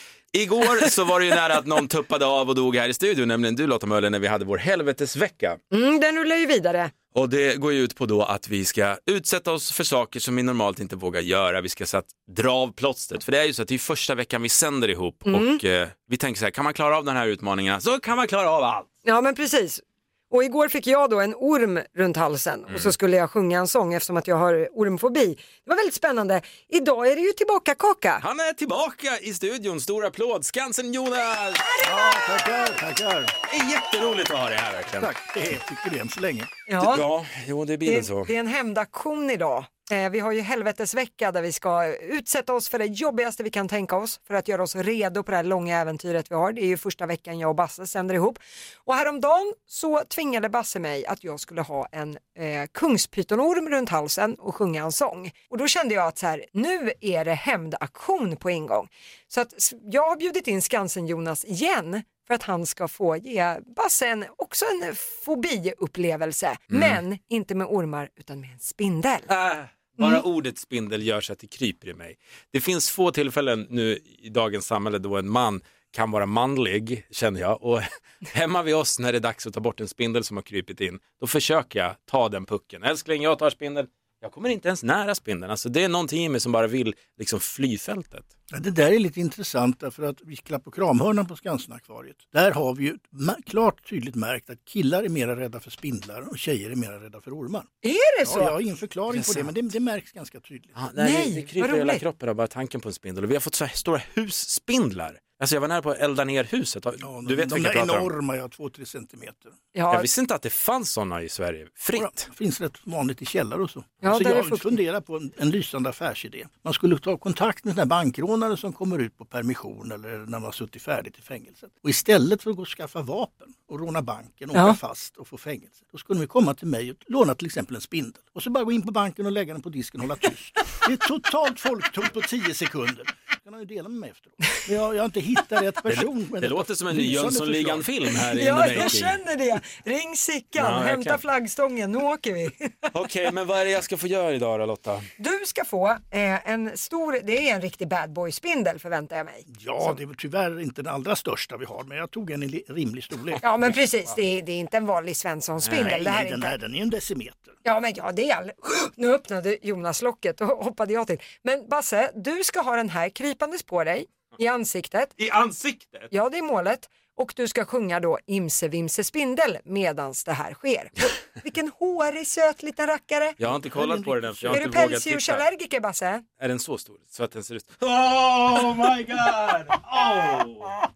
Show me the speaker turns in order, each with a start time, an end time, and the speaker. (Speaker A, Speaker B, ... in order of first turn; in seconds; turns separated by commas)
Speaker A: 0.3-5.6, Speaker B: 5.7-6.9, Speaker A: 7.1-18.9, Speaker B: 15.3-15.6, Speaker B: 19.0-28.2, Speaker A: 28.2-31.6, Speaker C: 31.8-33.3, Speaker A: 33.5-35.1, Speaker C: 35.0-36.5, Speaker B: 36.7-37.0, Speaker A: 36.8-38.3, Speaker B: 37.9-69.3, Speaker A: 66.7-67.0, Speaker A: 69.3-88.3, Speaker B: 70.0-70.2, Speaker C: 88.5-97.7, Speaker B: 97.8-98.5, Speaker C: 98.2-100.8, Speaker A: 99.1-99.5, Speaker A: 100.7-108.1, Speaker B: 101.0-102.0, Speaker C: 107.0-109.5, Speaker B: 109.7-110.1, Speaker A: 109.9-112.3, Speaker C: 112.0-137.9, Speaker B: 114.0-114.8, Speaker A: 135.9-139.2, Speaker B: 138.3-142.9, Speaker A: 140.6-141.2, Speaker A: 142.9-145.1, Speaker B: 145.2-149.9, Speaker C: 149.5-153.5, Speaker B: 153.4-156.6, Speaker A: 155.6-155.9, Speaker C: 155.8-157.6, Speaker B: 157.6-165.1, Speaker A: 165.2-166.1, Speaker B: 166.1-173.4, Speaker A: 173.4-175.4, Speaker C: 173.8-174.6, Speaker B: 174.5-176.2, Speaker A: 176.4-180.7